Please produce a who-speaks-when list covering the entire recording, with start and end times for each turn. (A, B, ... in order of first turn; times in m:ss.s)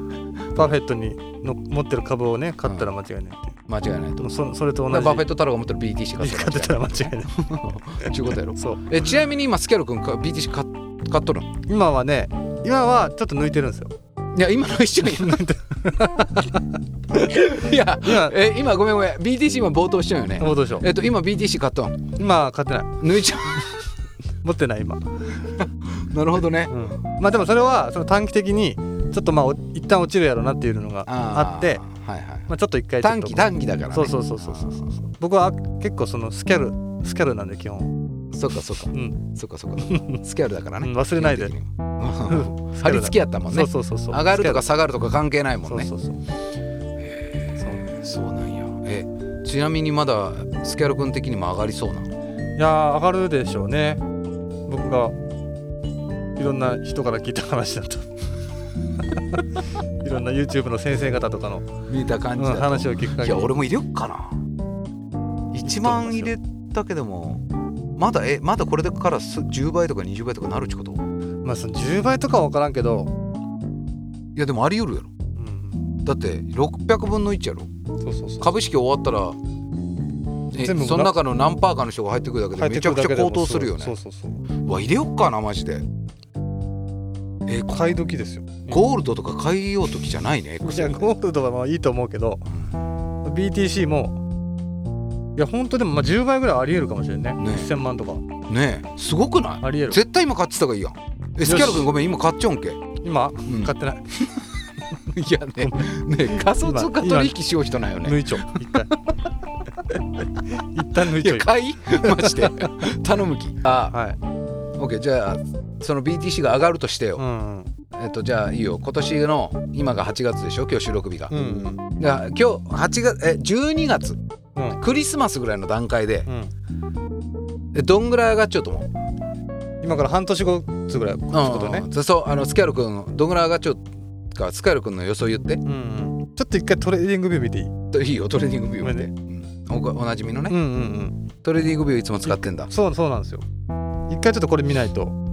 0:00.5-0:03.6 A
0:03.7-0:04.3 B
0:04.2-0:05.3 A
0:04.9-0:11.5 B
0:06.2-0:07.4 A
0:08.0-0:08.8 A
0:11.7-0:14.0 A
0:14.3-0:15.4 B
0:15.0-0:16.7 A
0:17.1-0:22.1 B
0:18.0-0:18.4 A
0:20.4-0:20.9 A
0:22.2-0:23.0 A
0:23.0-0:23.8 B
0:24.4-0:25.4 A
0:25.6-0:26.7 B
0:26.7-0:31.8 A
0:31.1-0:32.5 B
0:32.5-0:37.9 A
0:33.0-0:35.0 B
0:38.3-0:45.9 B
0:38.9-0:39.3 A
0:39.8-0:40.2 A
0:40.8-0:41.5 A
0:42.3-0:44.6 A
0:45.7-0:46.2 A
0:47.0-0:52.1 B
0:47.6-0:47.9 A
0:52.6-0:54.0 A
0:54.7-0:55.1 A
0:56.4-0:58.1 A
0:59.2-0:59.4 A
1:00.0-1:01.7 A
1:01.9-1:04.4 B
1:02.4-1:03.5 A
1:05.5-1:07.4 B
1:05.6-1:06.3 A
1:08.0-1:11.0 B
1:11.4-1:13.1 A
1:14.4-1:15.1 B
1:15.4-1:15.9 A
1:16.0-1:17.7 B
1:18.0-1:18.5 A
1:18.4-1:19.4 B
1:20.5-1:24.0 B
1:20.6-1:21.1 A
1:22.6-1:24.4 A
1:24.6-1:25.8 B
1:27.5-1:28.0 B
1:27.7-1:28.9 A
1:28.7-1:31.1 B
1:30.6-1:32.5 A
1:33.2-1:34.2 A
1:35.4-1:38.2 A
1:37.4-1:37.7 B
1:38.5-1:42.8 B
1:39.6-1:40.0 A
1:41.4-1:41.9 A
1:43.0-1:44.1 A
1:43.5-1:48.6 B
1:45.6-1:47.4 A
1:48.0-1:48.9 A
1:50.4-1:52.8 A
1:51.0-1:54.0 B
1:53.9-1:54.2 A
1:54.8-1:57.2 B
1:57.2-1:57.7 A
1:57.9-2:01.3 B
2:01.3-2:01.8 A
2:02.0-2:04.2 B
2:04.6-2:04.8 A
2:04.8-2:06.3 B
2:06.3-2:06.5 A
2:07.7-2:08.9 B
2:09.8-2:11.9 A
2:11.3-2:15.6 B
2:15.6-2:17.7 A
2:17.9-2:20.6 B
2:18.8-2:19.1 A
2:20.5-2:21.3 A
2:21.4-2:22.7 B
2:22.2-2:23.5 A
2:24.1-2:25.2 A